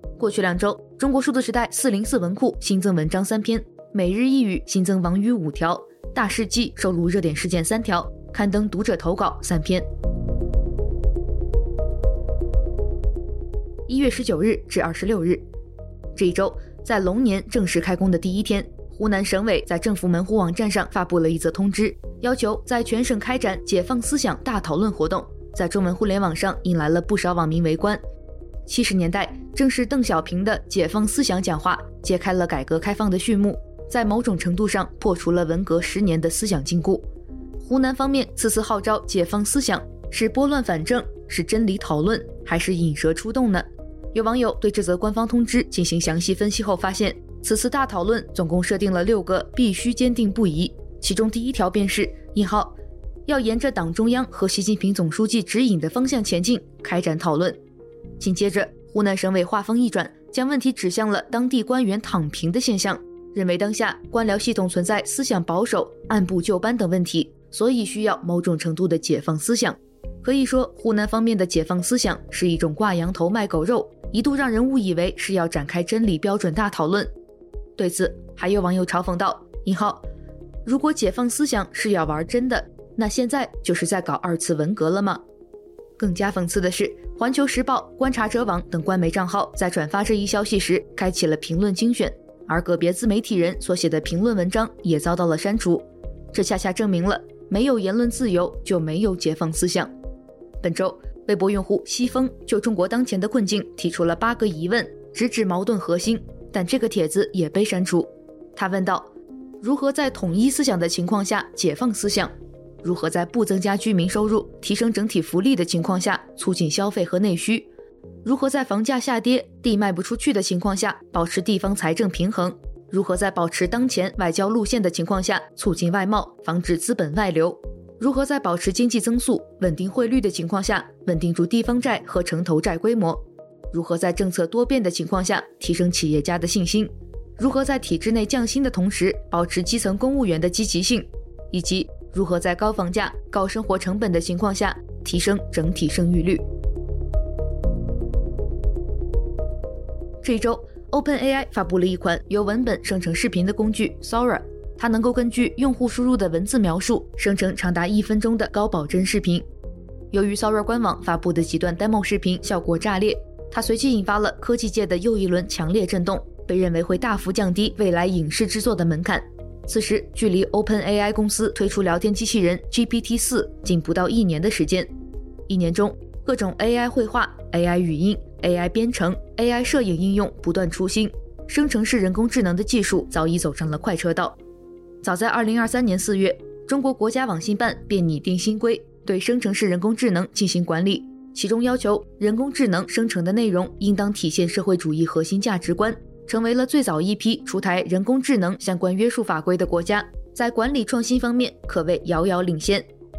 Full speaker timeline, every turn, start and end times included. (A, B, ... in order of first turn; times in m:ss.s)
0:00.2-0:09.9 A
0:13.9-0:15.4 A
0:16.2-0:28.0 A
0:28.7-0:37.1 A
0:37.6-0:52.8 A
0:53.3-0:57.6 A
0:58.2-1:17.1 A
1:17.8-1:20.0 A
1:20.6-1:25.2 A
1:26.0-1:39.9 A
1:40.6-1:49.1 A
1:49.6-1:52.3 A
1:52.8-1:57.7 A
1:58.2-2:26.4 A
2:30.2-2:39.4 A
2:40.1-2:54.9 A
2:55.5-3:04.4 A
3:05.0-3:22.9 A